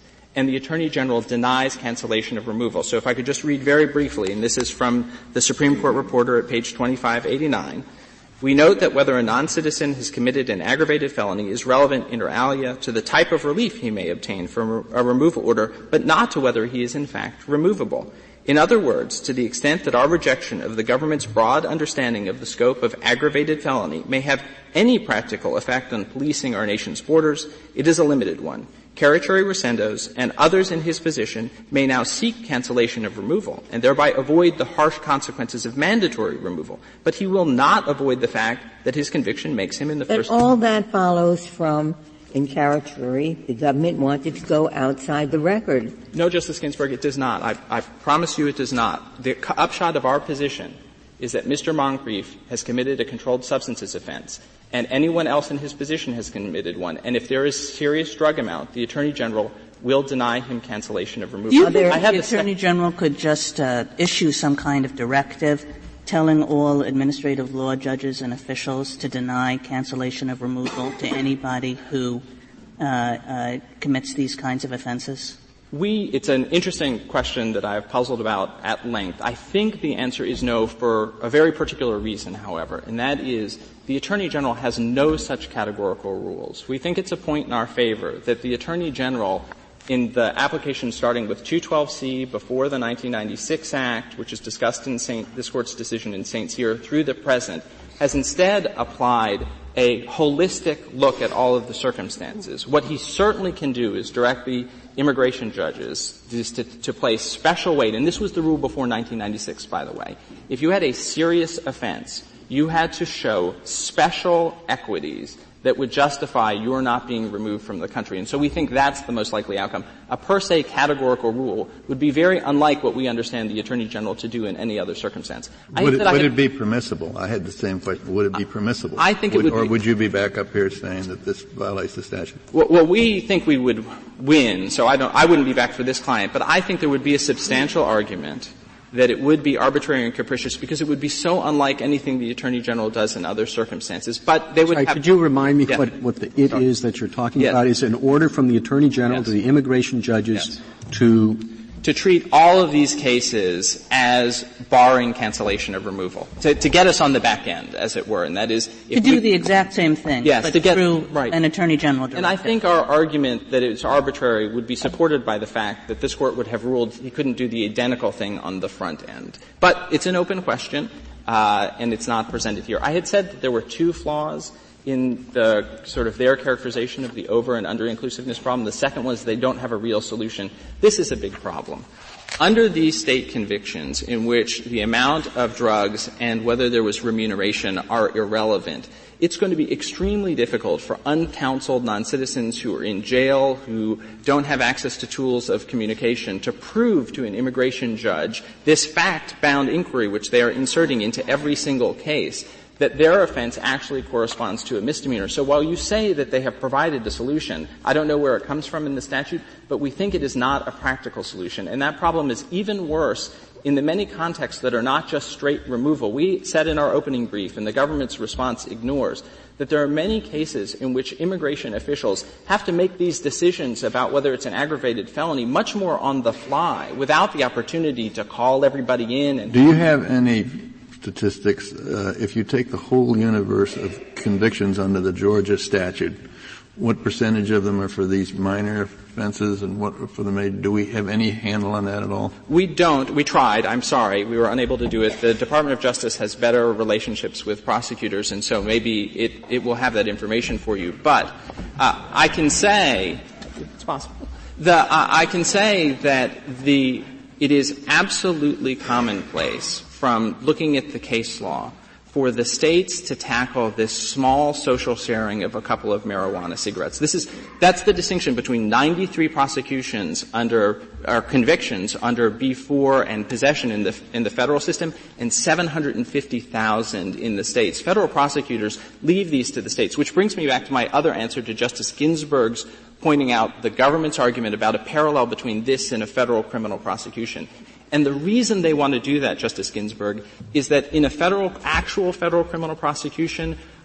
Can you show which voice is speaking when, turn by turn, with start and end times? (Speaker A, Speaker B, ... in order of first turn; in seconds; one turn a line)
Speaker A: 0.3-7.8
Speaker A: 8.4-40.4
Speaker B: 40.1-46.0
Speaker A: 46.1-62.5
Speaker C: 61.5-72.2
Speaker B: 61.6-62.0
Speaker C: 72.8-75.4
Speaker A: 75.7-126.3
Speaker D: 125.7-132.4
Speaker A: 129.0-129.8
Speaker A: 132.5-145.0
Speaker E: 144.7-151.5
Speaker A: 147.4-147.6
Speaker A: 151.8-159.3
Speaker C: 158.9-162.5
Speaker A: 160.2-161.4
Speaker A: 162.1-181.8
Speaker A: 182.4-229.6
Speaker D: 229.5-236.2
Speaker D: 236.8-242.3
Speaker A: 242.5-253.2
Speaker A: 253.8-293.6